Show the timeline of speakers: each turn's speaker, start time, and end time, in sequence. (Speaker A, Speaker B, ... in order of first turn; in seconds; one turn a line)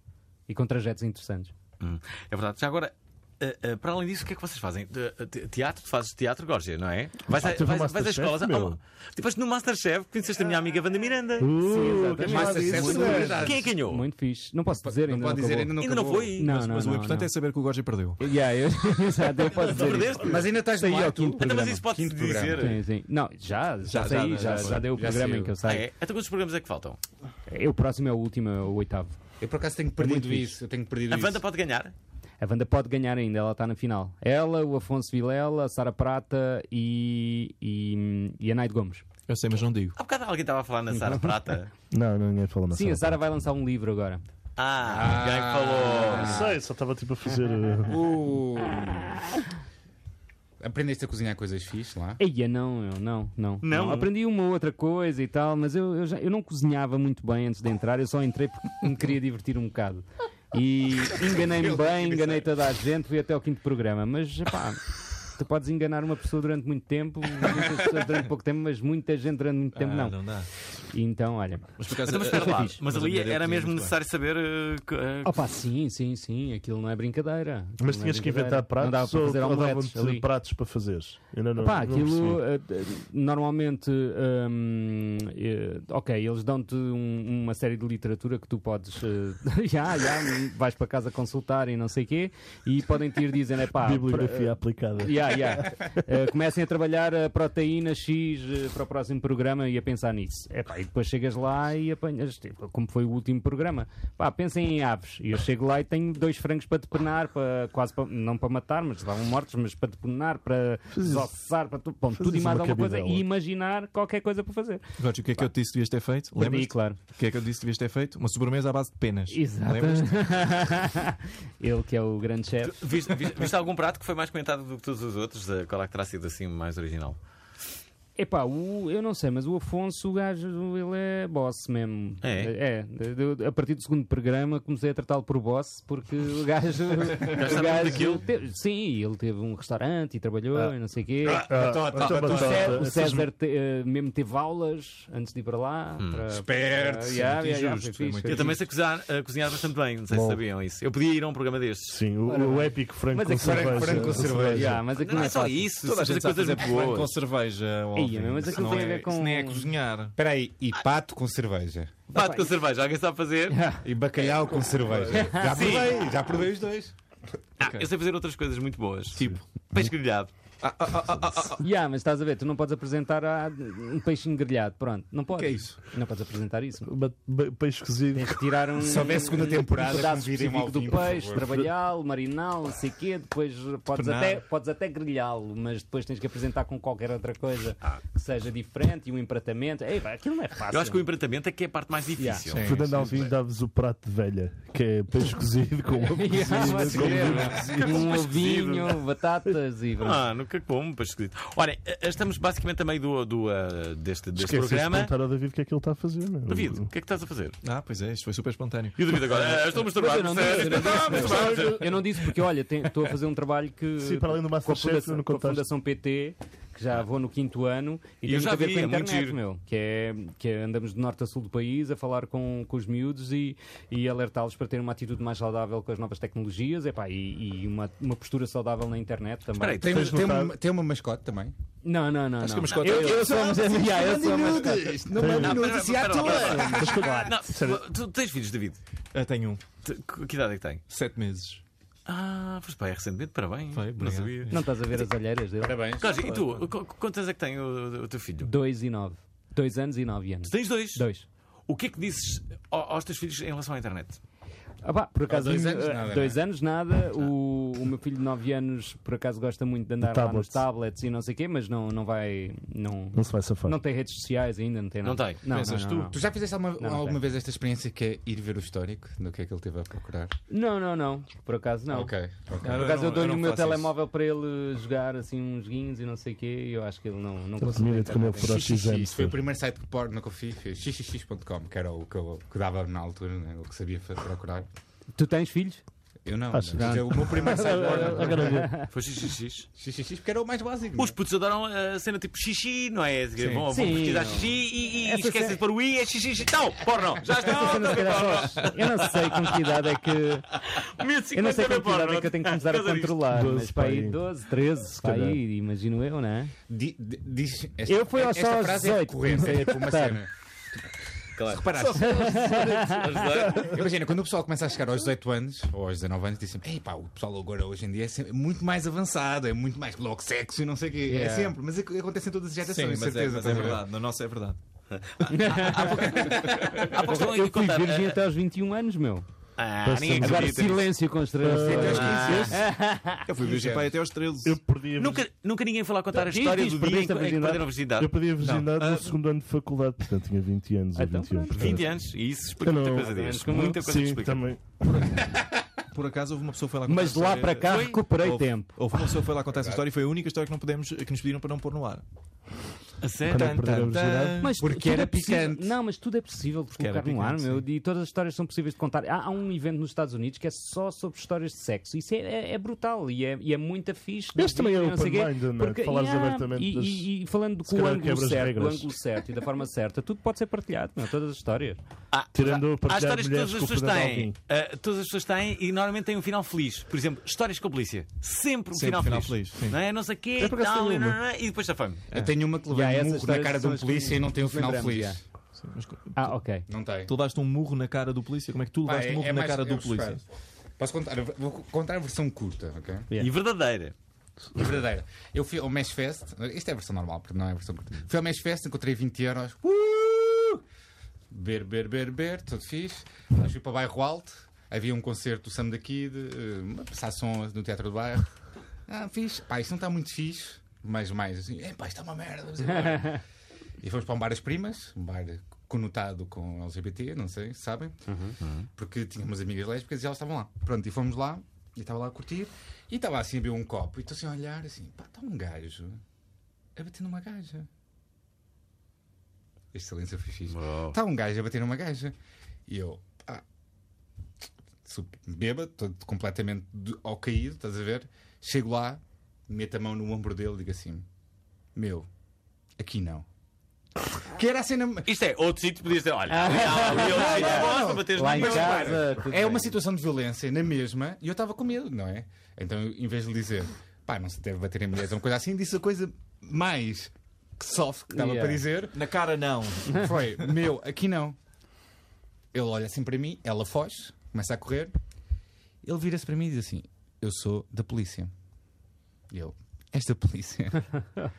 Speaker A: 0.5-1.5
Speaker B: 1.8-11.5
Speaker C: 7.3-8.8
Speaker C: 11.4-13.5
Speaker A: 11.5-15.7
Speaker D: 12.2-13.7
Speaker B: 13.2-14.1
Speaker D: 14.8-16.4
Speaker B: 15.8-16.5
Speaker A: 16.4-17.3
Speaker E: 16.4-18.2
Speaker A: 18.2-21.8
Speaker B: 19.4-20.5
Speaker D: 20.1-22.8
Speaker B: 21.3-22.8
Speaker A: 22.6-25.9
Speaker E: 23.8-25.0
Speaker D: 24.7-25.6
Speaker B: 25.6-27.0
Speaker A: 27.5-29.2
Speaker D: 29.4-31.4
Speaker A: 30.0-30.6
Speaker B: 31.1-31.9
Speaker A: 32.4-39.0
Speaker E: 39.3-40.0
Speaker B: 40.0-41.7
Speaker A: 40.9-41.3
Speaker C: 41.9-43.2
Speaker A: 42.7-44.2
Speaker B: 44.6-46.5
Speaker D: 44.8-46.5
Speaker C: 46.1-48.1
Speaker D: 47.9-49.3
Speaker D: 50.6-52.2
Speaker A: 52.2-70.2
Speaker B: 53.6-54.1
Speaker D: 61.2-62.4
Speaker E: 69.7-70.5
Speaker A: 70.9-72.8
Speaker E: 71.8-74.0
Speaker B: 72.0-75.4
Speaker A: 75.2-80.3
Speaker C: 77.8-82.4
Speaker A: 81.6-114.8
Speaker C: 93.7-95.9
Speaker C: 110.9-111.3
Speaker C: 112.2-113.2
Speaker E: 115.0-120.3
Speaker A: 116.3-117.0
Speaker A: 119.3-122.9
Speaker B: 122.7-127.2
Speaker A: 128.2-141.5
Speaker B: 132.2-132.5
Speaker B: 137.1-138.2
Speaker D: 141.2-142.8
Speaker C: 141.3-143.2
Speaker A: 142.0-148.6
Speaker D: 146.3-147.8
Speaker E: 147.3-148.6
Speaker B: 148.2-152.0
Speaker C: 150.1-150.4
Speaker C: 151.9-154.8
Speaker A: 152.2-155.7
Speaker D: 153.4-154.8
Speaker B: 155.0-157.1
Speaker E: 155.7-160.1
Speaker A: 157.9-159.7
Speaker D: 160.2-162.0
Speaker A: 162.1-162.5
Speaker B: 162.1-163.6
Speaker A: 163.5-163.8
Speaker D: 163.8-166.9
Speaker E: 164.8-165.4
Speaker A: 165.1-165.7
Speaker B: 165.3-166.0
Speaker B: 167.6-170.3
Speaker E: 167.6-167.9
Speaker E: 169.2-169.4
Speaker E: 170.6-171.7
Speaker A: 171.6-176.9
Speaker E: 175.3-175.8
Speaker C: 176.8-178.6
Speaker A: 178.1-191.0
Speaker D: 178.8-181.5
Speaker E: 183.9-184.4
Speaker B: 190.7-193.2
Speaker A: 192.2-192.4
Speaker E: 192.5-193.2
Speaker C: 192.6-197.6
Speaker A: 196.0-200.2
Speaker E: 196.6-198.0
Speaker D: 196.8-197.7
Speaker B: 197.0-199.0
Speaker B: 200.0-205.1
Speaker C: 204.3-206.9
Speaker B: 206.5-207.6
Speaker E: 207.6-209.4
Speaker B: 209.0-212.0
Speaker A: 209.4-229.9
Speaker E: 211.0-211.6
Speaker C: 211.1-211.7
Speaker C: 214.0-215.7
Speaker B: 218.2-219.4
Speaker B: 229.6-230.2
Speaker D: 229.8-231.5
Speaker C: 229.8-230.6
Speaker A: 231.8-235.1
Speaker E: 232.4-233.6
Speaker B: 232.6-233.2
Speaker D: 233.0-237.1
Speaker C: 235.1-235.7
Speaker B: 235.3-238.8
Speaker A: 236.2-237.3
Speaker C: 236.5-237.8
Speaker E: 239.1-239.6
Speaker B: 239.8-240.8
Speaker E: 240.9-241.6
Speaker B: 242.1-245.0
Speaker E: 243.7-244.6
Speaker A: 244.5-245.8
Speaker D: 245.6-246.2
Speaker B: 246.0-248.5
Speaker E: 246.1-246.7
Speaker A: 248.4-251.2
Speaker B: 250.4-251.0
Speaker B: 251.7-254.2
Speaker A: 254.8-266.2
Speaker D: 255.3-256.4
Speaker C: 260.0-260.6
Speaker C: 263.1-263.8
Speaker B: 265.0-266.1
Speaker E: 265.5-266.1
Speaker D: 266.1-270.4
Speaker A: 266.8-267.2
Speaker A: 270.5-272.1
Speaker D: 271.9-272.9
Speaker E: 272.6-273.9
Speaker A: 272.7-278.6
Speaker C: 277.6-279.4
Speaker D: 278.4-284.7
Speaker A: 285.1-285.8
Speaker D: 286.2-288.6
Speaker C: 286.5-288.8
Speaker A: 286.8-288.9
Speaker B: 288.9-289.7
Speaker D: 289.8-291.1
Speaker B: 290.9-299.9
Speaker A: 293.7-295.6
Speaker A: 297.4-300.5
Speaker B: 300.5-303.2
Speaker A: 301.3-306.5
Speaker C: 303.3-304.2
Speaker C: 304.9-305.4
Speaker D: 306.7-310.3
Speaker A: 307.9-310.2
Speaker B: 311.4-311.7
Speaker D: 311.4-312.7
Speaker A: 311.8-313.4
Speaker E: 312.1-313.0
Speaker B: 312.9-313.8
Speaker D: 313.3-323.8
Speaker A: 321.0-321.6
Speaker E: 322.6-324.6
Speaker E: 325.2-327.0
Speaker A: 325.3-329.2
Speaker B: 325.8-328.2
Speaker B: 329.6-330.9
Speaker C: 329.8-330.8
Speaker A: 330.2-333.2
Speaker C: 331.4-332.5
Speaker D: 331.6-332.6
Speaker B: 331.7-332.6
Speaker E: 333.2-334.6
Speaker D: 333.4-333.9
Speaker C: 334.4-335.2
Speaker B: 335.0-338.1
Speaker A: 336.1-337.7
Speaker C: 338.0-341.9
Speaker E: 338.4-339.1
Speaker A: 340.9-341.8
Speaker B: 341.5-344.4
Speaker C: 342.6-345.0
Speaker A: 342.9-343.8
Speaker E: 345.9-352.0
Speaker A: 346.9-348.8
Speaker B: 347.7-348.0
Speaker B: 353.0-353.6
Speaker E: 353.2-354.6
Speaker C: 353.3-354.5
Speaker A: 354.4-371.8
Speaker D: 354.6-355.7
Speaker E: 356.8-357.6
Speaker C: 364.3-367.1
Speaker C: 367.6-369.0
Speaker B: 372.1-382.1
Speaker C: 372.3-374.3
Speaker E: 378.7-379.8
Speaker C: 380.4-381.2
Speaker D: 382.1-385.2
Speaker A: 382.7-385.2
Speaker E: 385.6-386.4
Speaker A: 386.1-386.7
Speaker D: 386.7-387.1
Speaker E: 387.1-390.2
Speaker D: 388.8-390.2
Speaker D: 390.8-393.1
Speaker B: 393.2-393.9
Speaker D: 394.5-400.6
Speaker D: 401.3-408.3
Speaker D: 408.9-413.2
Speaker D: 413.8-418.0
Speaker A: 418.1-418.4
Speaker B: 418.4-418.7
Speaker D: 418.8-426.0
Speaker D: 426.7-427.7
Speaker D: 429.7-432.1
Speaker B: 430.5-431.0
Speaker D: 432.7-433.4
Speaker D: 434.8-441.0
Speaker D: 441.7-442.1
Speaker D: 442.8-443.2
Speaker D: 444.1-445.1
Speaker B: 445.1-449.1
Speaker A: 446.3-449.7
Speaker D: 446.9-459.0
Speaker A: 458.1-458.6
Speaker E: 458.9-460.5
Speaker D: 459.9-461.4
Speaker D: 462.5-465.0
Speaker D: 465.8-468.3
Speaker D: 469.3-471.1